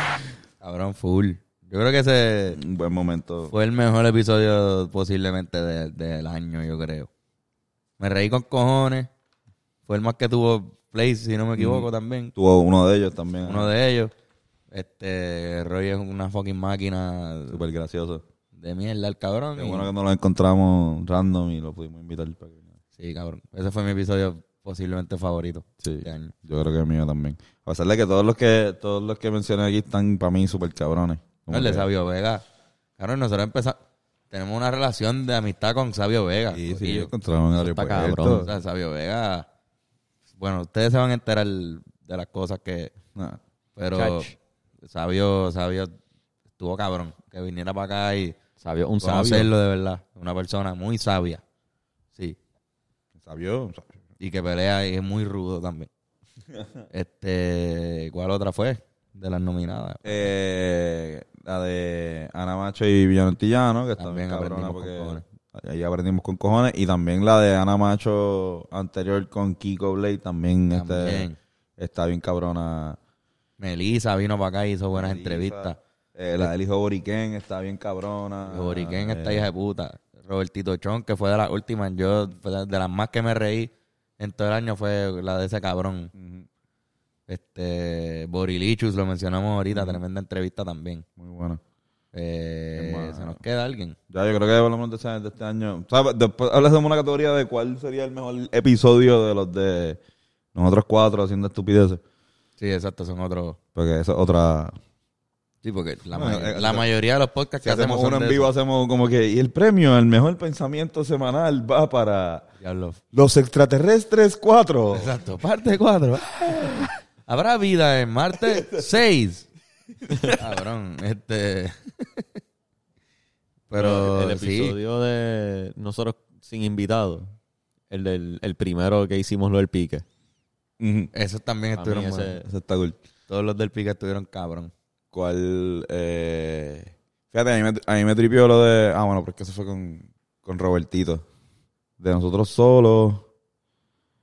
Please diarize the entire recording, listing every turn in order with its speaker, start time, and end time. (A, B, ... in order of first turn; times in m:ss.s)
0:00.6-0:02.6 A
0:02.5-0:03.5 B
0:03.5-0:07.1 A
0:08.0-0:09.1 A
0:09.8-0:12.3 A
0:11.6-0:13.7 B
0:13.4-0:14.1 A
0:14.7-0:17.6 A
0:17.5-0:18.2 B
0:18.6-0:19.9 A
0:19.6-0:22.6 B
0:23.0-0:26.3 A
0:25.8-0:31.9 B
0:31.5-0:32.4 A
0:33.0-0:33.8 A
0:34.3-0:37.1 A
0:36.5-0:38.5 B
0:37.6-0:38.5 C
0:38.3-0:39.4 A
0:40.4-0:42.9 A
0:43.8-0:44.3 A
0:43.9-0:44.3 C
0:44.8-0:45.9 A
0:46.6-0:48.4 A
0:48.6-0:49.5 C
0:49.0-0:51.4 A
0:53.2-0:53.9 B
0:54.2-0:55.9 A
0:56.9-1:00.3 A
1:00.0-1:13.0 B
1:04.0-1:05.2 A
1:10.7-1:11.4 A
1:13.6-1:15.8 A
1:14.9-1:19.5 B
1:18.4-1:26.1 A
1:26.1-1:26.5 B
1:27.3-1:31.0 A
1:29.7-1:30.0 B
1:31.2-1:31.6 B
1:32.1-1:34.0 A
1:32.8-1:33.4 B
1:34.1-1:40.0 B
1:40.5-1:42.0 B
1:42.6-1:43.6 A
1:43.8-1:44.7 B
1:45.6-1:48.5 A
1:46.1-1:46.8 B
1:47.6-1:52.4 B
1:52.6-1:53.0 A
1:53.1-1:55.1 B
1:54.9-1:59.5 A
1:56.5-1:56.8 B
1:58.5-1:58.8 B
2:00.1-2:00.4 B
2:00.3-2:02.2 A
2:03.7-2:04.8 A
2:03.7-2:07.3 C
2:07.9-2:10.0 C
2:10.8-2:11.1 B
2:11.1-2:12.3 A
2:11.8-2:12.4 C
2:12.4-2:13.0 B
2:13.3-2:14.7 A
2:15.1-2:21.2 B
2:22.0-2:23.2 B